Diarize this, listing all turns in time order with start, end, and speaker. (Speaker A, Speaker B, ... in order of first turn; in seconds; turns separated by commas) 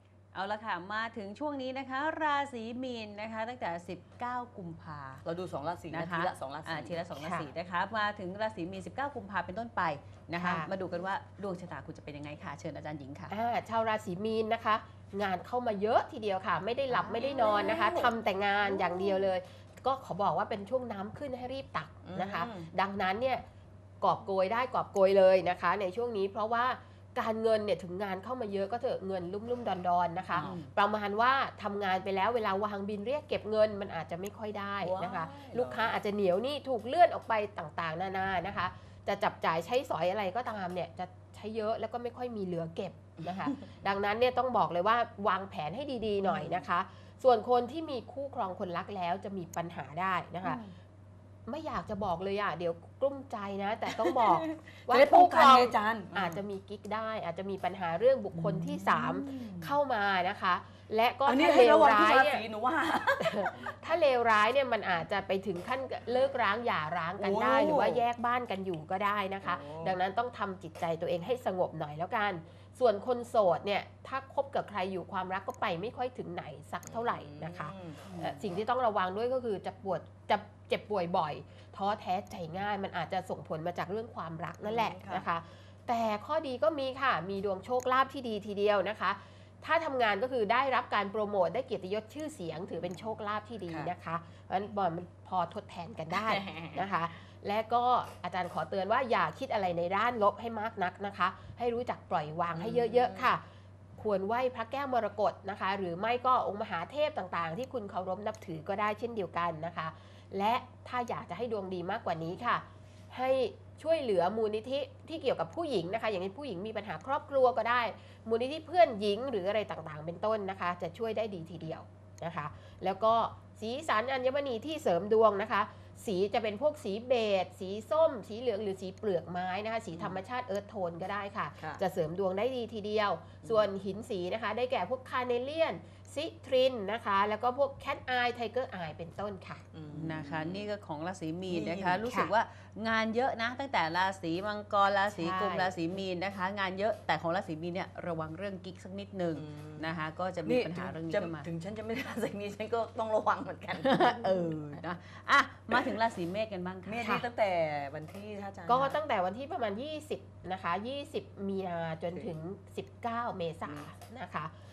Speaker A: 0.3-5.2, Speaker B: 5.2-7.0, Speaker A: 5.9-13.4, Speaker C: 7.2-7.5, Speaker C: 10.4-10.7, Speaker C: 13.3-23.5, Speaker B: 17.1-18.1, Speaker B: 22.1-22.7, Speaker C: 24.0-50.6, Speaker A: 30.3-30.7, Speaker B: 30.3-30.7, Speaker B: 34.8-36.0, Speaker B: 43.3-43.6, Speaker B: 46.2-46.7, Speaker A: 50.4-50.7, Speaker C: 51.5-62.4, Speaker B: 53.9-56.4, Speaker A: 58.4-59.5, Speaker B: 59.3-59.7, Speaker B: 61.2-63.7, Speaker C: 63.2-103.4, Speaker B: 67.2-68.1, Speaker B: 69.4-70.0, Speaker B: 76.8-78.1, Speaker A: 78.1-78.4, Speaker B: 84.6-85.3, Speaker B: 93.7-93.9, Speaker B: 102.5-103.3, Speaker C: 104.0-139.7, Speaker B: 129.9-130.2, Speaker B: 131.6-131.8, Speaker B: 133.4-133.7, Speaker B: 139.7-140.7, Speaker A: 139.9-151.5, Speaker B: 141.5-142.0, Speaker C: 142.1-142.3, Speaker C: 145.1-145.8, Speaker B: 149.3-154.8, Speaker A: 153.8-157.2, Speaker B: 156.8-159.0, Speaker C: 157.0-157.2, Speaker C: 158.7-164.5, Speaker B: 163.7-163.9